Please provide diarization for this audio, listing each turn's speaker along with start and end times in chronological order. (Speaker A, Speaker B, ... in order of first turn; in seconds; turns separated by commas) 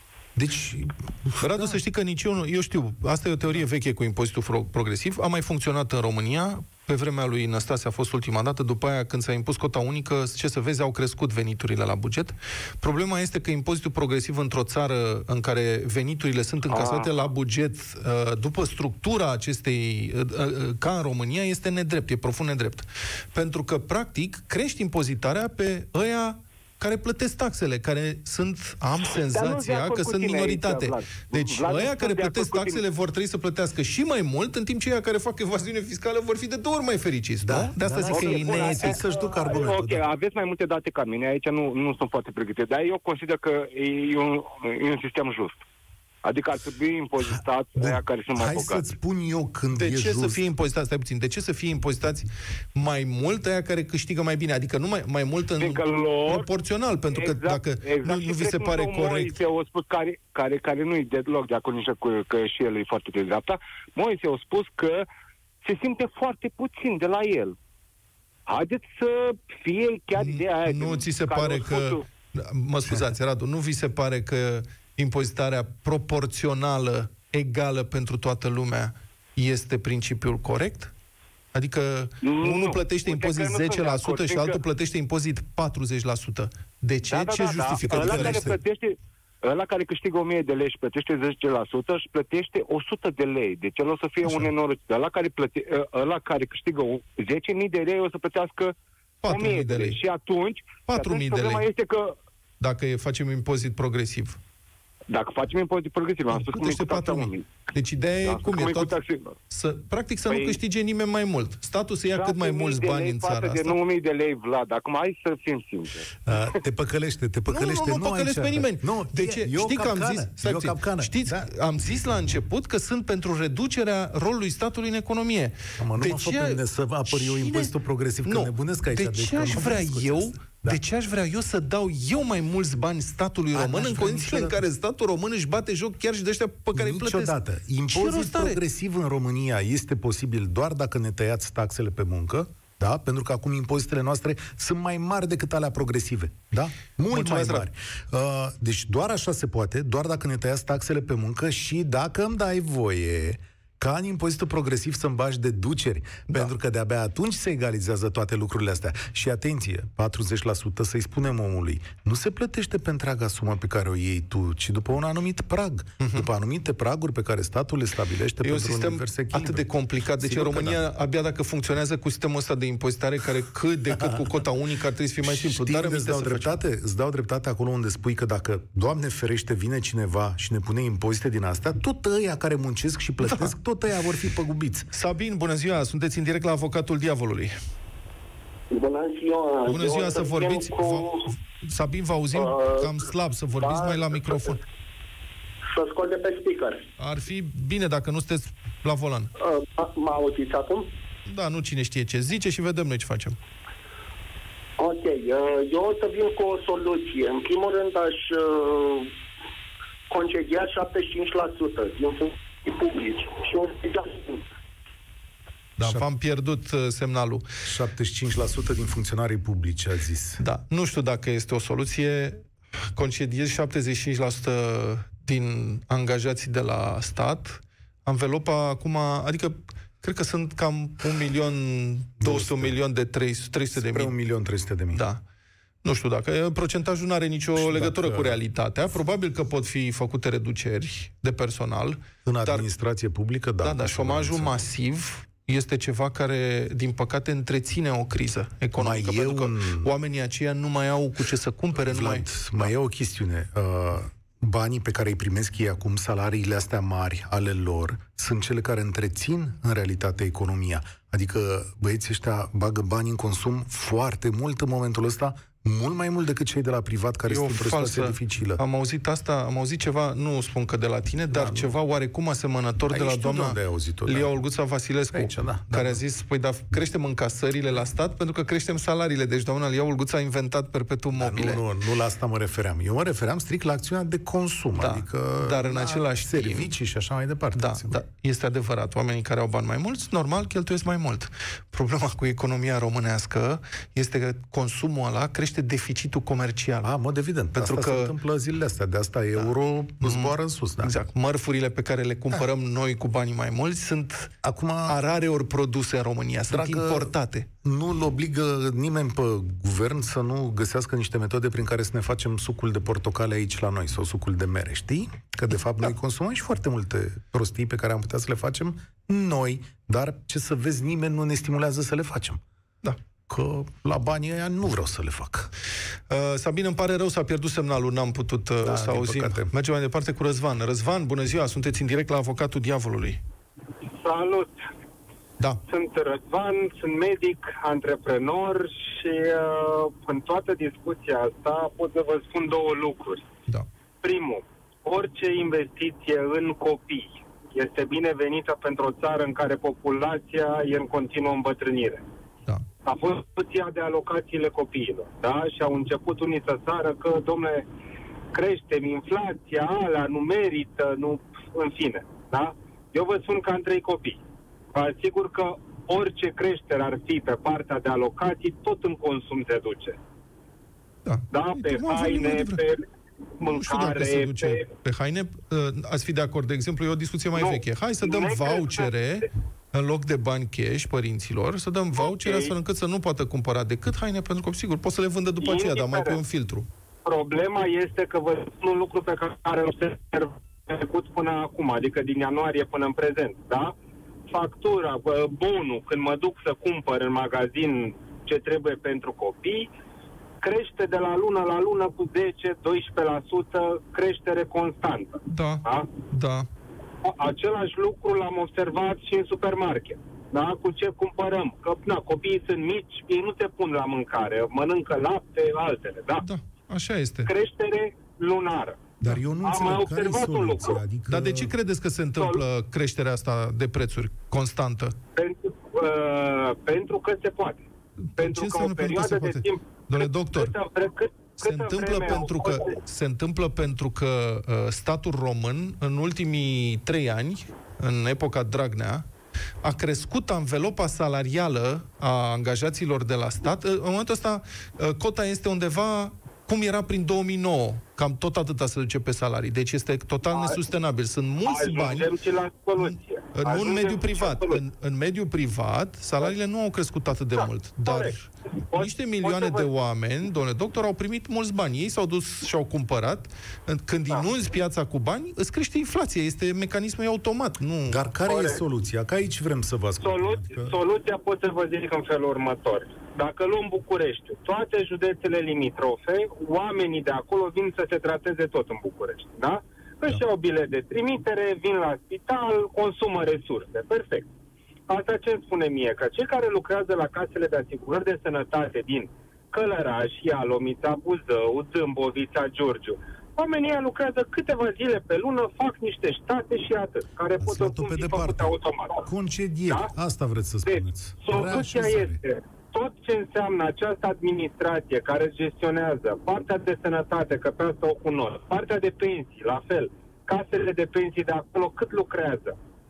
Speaker A: 0.4-1.8, Speaker B: 1.4-39.0, Speaker C: 16.7-17.3, Speaker C: 29.3-32.8, Speaker A: 37.4-40.0, Speaker C: 38.1-45.6, Speaker C: 46.2-48.9, Speaker A: 47.8-50.4, Speaker B: 49.7-59.4, Speaker C: 55.6-56.5, Speaker C: 57.1-65.1, Speaker C: 65.6-67.5, Speaker C: 68.5-72.0, Speaker B: 70.2-80.9, Speaker B: 81.5-88.5, Speaker C: 82.2-84.6, Speaker C: 87.1-98.7, Speaker A: 87.9-88.6, Speaker B: 99.2-100.0, Speaker C: 99.3-102.2, Speaker B: 100.9-101.7, Speaker B: 102.6-104.4, Speaker C: 105.1-107.5, Speaker B: 106.3-109.0, Speaker C: 108.2-109.4, Speaker B: 109.5-113.8, Speaker C: 110.3-110.6, Speaker C: 112.2-116.2, Speaker A: 116.3-121.5, Speaker B: 117.5-127.7, Speaker A: 125.8-130.8, Speaker B: 128.2-138.6, Speaker A: 133.5-134.6, Speaker A: 136.8-170.8, Speaker B: 147.1-147.7, Speaker B: 166.0-166.3, Speaker B: 168.4-176.6, Speaker A: 173.9-174.3, Speaker A: 175.2-184.9, Speaker B: 183.2-183.5, Speaker B: 184.9-187.6, Speaker D: 188.7-191.3, Speaker B: 189.7-194.6, Speaker D: 192.5-192.9, Speaker D: 193.6-194.5, Speaker D: 195.7-196.8, Speaker B: 197.0-199.3, Speaker D: 199.4-200.9, Speaker B: 201.3-203.4, Speaker D: 204.8-209.1, Speaker D: 210.1-214.4, Speaker B: 215.8-217.4, Speaker A: 215.8-216.1, Speaker A: 217.7-220.4, Speaker B: 220.4-222.4, Speaker B: 223.0-234.1, Speaker A: 232.2-232.8, Speaker A: 233.8-235.0, Speaker B: 234.9-235.2, Speaker B: 235.8-242.7, Speaker A: 237.6-238.4, Speaker A: 242.2-244.7, Speaker B: 243.6-252.7, Speaker A: 248.8-249.9, Speaker A: 251.8-268.6, Speaker B: 267.3-281.6, Speaker A: 271.3-271.7, Speaker A: 272.9-274.4, Speaker A: 275.1-276.0, Speaker A: 281.2-288.0, Speaker B: 284.8-286.7, Speaker B: 287.6-296.9, Speaker A: 296.8-300.9, Speaker B: 297.6-298.1, Speaker B: 299.4-304.3, Speaker A: 304.4-305.0, Speaker B: 304.9-307.5, Speaker A: 306.5-307.1, Speaker A: 307.6-322.4, Speaker A: 323.3-325.5, Speaker B: 326.1-333.2, Speaker A: 328.6-329.5, Speaker E: 334.0-334.5, Speaker E: 335.7-343.2, Speaker E: 344.0-352.0, Speaker E: 352.9-357.6, Speaker E: 358.3-364.2, Speaker E: 364.7-370.0, Speaker B: 371.1-372.6, Speaker E: 371.3-372.9, Speaker E: 373.4-374.7, Speaker B: 373.4-386.7, Speaker E: 377.4-378.9, Speaker E: 382.0-382.5, Speaker E: 385.4-386.2, Speaker E: 387.1-393.7, Speaker E: 394.3-399.7, Speaker E: 400.4-405.9, Speaker B: 405.3-406.5, Speaker E: 407.0-416.2, Speaker B: 416.2-417.3, Speaker E: 417.3-418.9, Speaker A: 419.0-421.5, Speaker E: 419.4-420.8, Speaker B: 421.1-425.0, Speaker E: 425.1-427.6, Speaker B: 428.2-430.5, Speaker E: 428.2-432.8, Speaker B: 431.4-439.1, Speaker B: 439.6-452.1, Speaker E: 450.3-450.6, Speaker E: 451.5-454.6, Speaker B: 452.8-468.0, Speaker E: 457.4-458.1, Speaker E: 458.7-459.7, Speaker A: 467.9-470.8, Speaker E: 468.3-468.6, Speaker E: 470.0-484.3, Speaker E: 484.9-499.1, Speaker A: 497.4-502.2, Speaker E: 500.7-512.6